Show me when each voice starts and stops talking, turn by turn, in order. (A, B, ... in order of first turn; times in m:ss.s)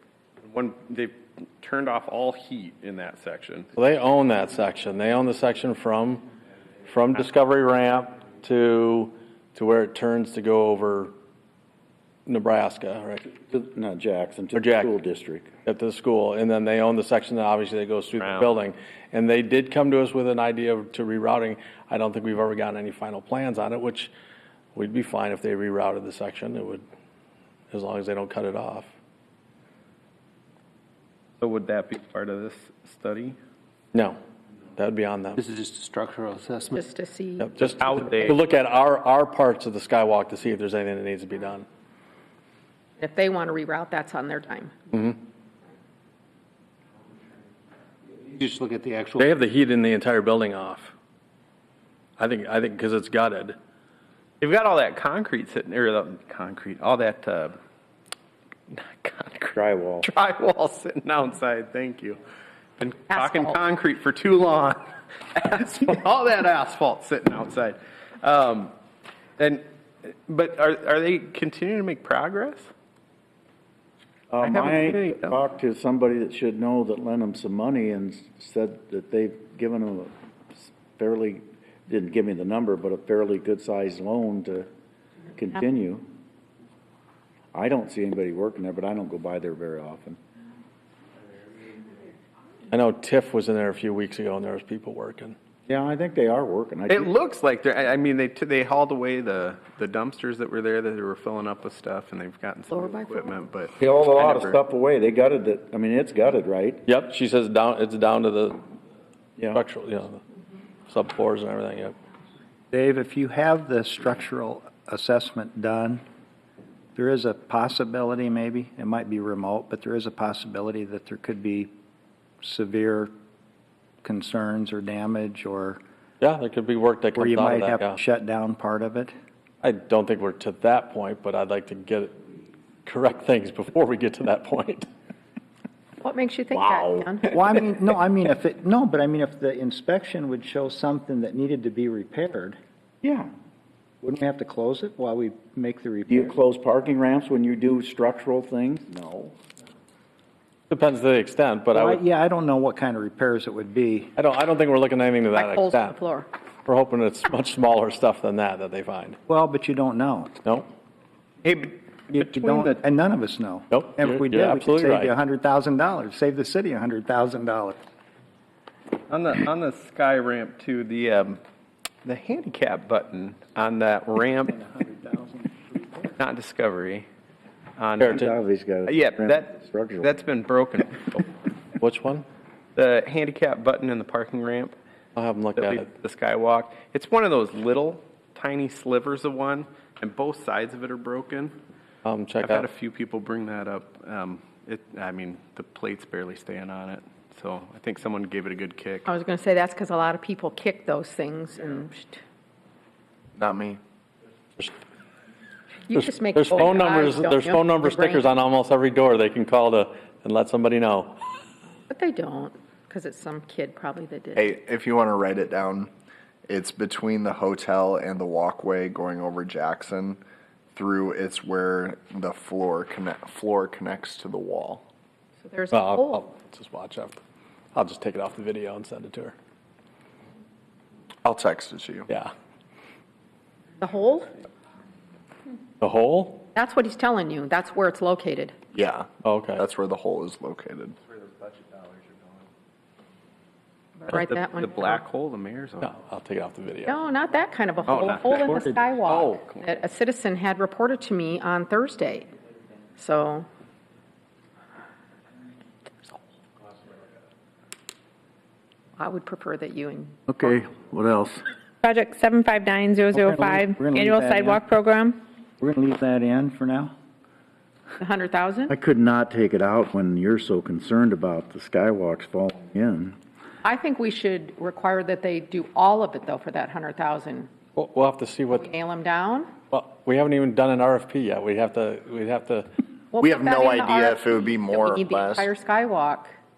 0:00.4-0:03.7 A
0:03.8-0:06.3 B
0:06.9-0:11.1 B
0:12.3-0:13.2 B
0:13.3-0:15.6 C
0:14.5-0:14.9 B
0:15.6-0:24.1 B
0:18.2-0:18.5 A
0:24.8-0:26.8 B
0:27.7-0:28.9 B
0:31.4-0:33.4 A
0:33.9-0:34.2 B
0:34.8-0:35.4 B
0:35.4-0:36.8 D
0:36.7-0:37.5 E
0:37.4-0:41.6 B
0:37.6-0:38.4 A
0:43.0-0:45.0 E
0:48.3-0:49.3 D
0:49.2-0:50.9 B
0:52.2-0:53.6 B
0:54.4-0:57.6 A
0:58.7-1:02.2 A
0:59.6-1:00.1 C
1:02.8-1:08.8 A
1:03.1-1:03.6 E
1:09.4-1:12.7 A
1:14.3-1:24.7 C
1:14.4-1:15.4 A
1:25.4-1:26.1 C
1:27.5-1:30.2 C
1:32.7-1:35.4 B
1:35.7-1:37.1 C
1:36.9-1:44.6 A
1:42.7-1:43.3 E
1:43.8-1:46.8 C
1:46.9-1:48.6 B
1:49.5-1:50.2 B
1:50.9-1:52.0 B
1:52.7-1:56.0 F
1:57.0-2:01.7 F
2:02.4-2:03.1 F
2:04.0-2:05.8 F
2:06.2-2:08.0 B
2:07.1-2:09.1 F
2:09.6-2:12.1 B
2:12.8-2:14.9 B
2:16.0-2:17.3 E
2:16.5-2:17.0 C
2:17.3-2:22.6 F
2:23.0-2:23.3 C
2:24.0-2:26.3 F
2:26.1-2:29.3 C
2:30.7-2:32.0 B
2:31.7-2:34.1 F
2:34.2-2:36.0 B
2:35.3-2:36.3 E
2:36.7-2:39.2 B
2:39.3-2:40.3 F
2:41.4-2:42.8 A
2:42.2-2:47.8 F
2:43.7-2:45.1 B
2:49.1-2:51.4 A
2:52.0-2:54.7 A
2:54.7-2:56.1 F
2:56.2-2:57.1 A
2:57.8-2:58.3 A
2:58.0-2:58.3 B
2:58.0-3:00.1 C
2:58.9-3:01.3 A
3:01.8-3:02.3 B
3:02.8-3:04.8 A
3:05.2-3:05.9 B
3:05.6-3:11.6 A
3:12.0-3:12.7 B
3:12.4-3:19.1 A
3:19.1-3:22.2 E
3:23.4-3:23.8 G
3:25.9-3:28.4 E
3:26.0-3:31.2 B
3:31.9-3:34.4 E
3:34.4-3:35.9 G
3:36.5-3:40.2 G
3:40.7-3:44.9 G
3:45.4-3:46.3 E
3:45.7-3:47.2 B
3:47.7-3:49.4 B
3:51.2-3:52.1 G
3:53.8-3:54.3 E
3:55.8-3:56.5 B
3:56.5-3:58.6 E
3:58.7-4:01.0 G
3:59.2-3:59.6 B
4:04.0-4:05.0 E
4:04.1-4:05.9 A
4:05.8-4:06.9 B
4:06.8-4:12.3 E
4:07.9-4:09.8 A
4:13.0-4:13.5 E
4:19.0-4:20.2 E
4:20.3-4:21.5 C
4:21.8-4:25.2 H
4:23.1-4:24.6 F
4:25.6-4:26.9 F
4:28.0-4:28.7 E
4:28.7-4:33.2 C
4:33.6-4:37.5 E
4:37.8-4:38.7 B
4:38.5-4:39.5 E
4:39.7-4:42.7 B
4:43.1-4:46.4 E
4:43.2-4:45.5 G